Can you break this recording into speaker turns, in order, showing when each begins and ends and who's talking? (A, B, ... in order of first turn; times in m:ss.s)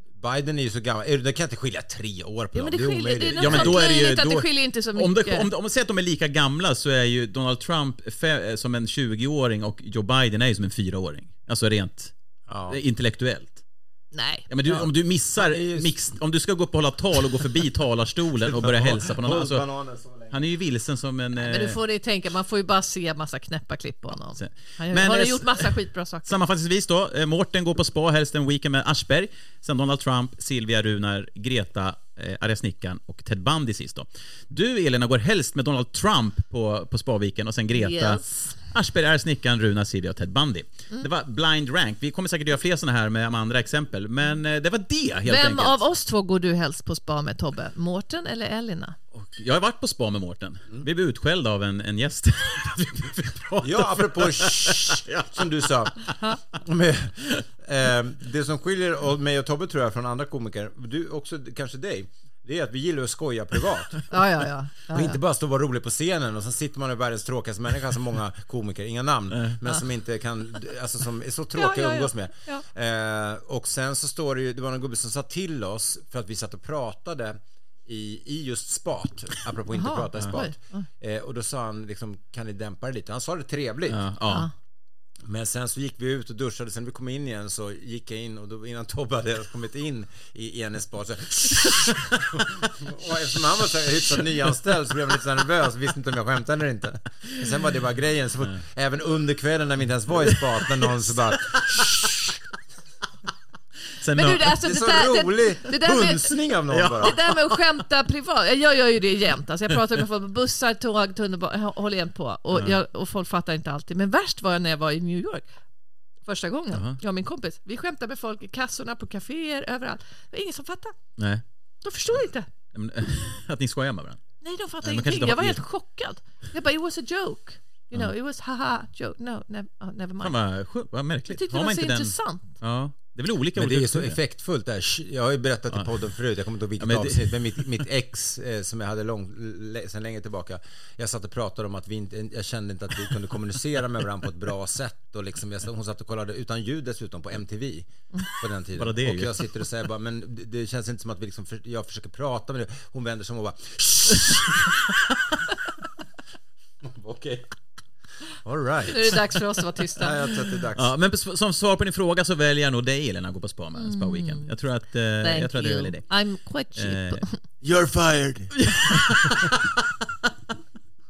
0:00.2-0:03.8 A
0:02.6-0:05.5 B
0:03.3-0:12.1 C
0:12.5-0:12.8 A
0:12.7-0:13.6 C
0:14.1-0:14.5 B
0:14.5-0:19.6 C
0:15.4-0:15.9 A
0:18.4-0:20.4 A
0:20.3-0:21.8 C
0:21.4-0:26.4 B
0:24.3-0:25.7 C
0:26.3-0:45.8 C
0:37.7-0:38.6 B
0:45.3-0:49.0 B
0:49.1-0:56.1 C
0:53.6-1:04.1 A
1:04.1-1:05.2 B
1:04.9-1:24.0 A
1:11.6-1:12.6 B
1:19.7-1:20.9 B
1:23.9-1:24.5 C
1:25.2-1:42.0 A
1:40.3-1:42.4 C
1:44.0-1:44.6 C
1:44.1-1:46.4 B
1:44.6-1:47.2 A
1:46.7-1:47.8 C
1:47.0-1:55.4 B
1:56.3-2:01.0 B
1:56.7-1:57.0 C
2:01.2-2:01.4 C
2:01.8-2:02.5 B
2:02.7-2:04.2 C
2:04.4-2:10.4 B
2:04.8-2:05.6 C
2:10.2-2:14.2 C
2:11.3-2:12.5 B
2:13.6-2:34.8 A
2:16.8-2:17.7 C
2:28.8-2:29.4 C
2:34.5-2:35.2 C
2:36.8-2:37.5 A
2:38.4-2:39.2 A
2:38.9-2:40.3 B
2:40.0-2:40.9 A
2:40.7-2:46.1 C
2:43.8-2:44.5 B
2:45.2-2:47.4 B
2:46.8-2:47.2 C
2:47.6-2:49.3 A
2:48.6-2:50.3 C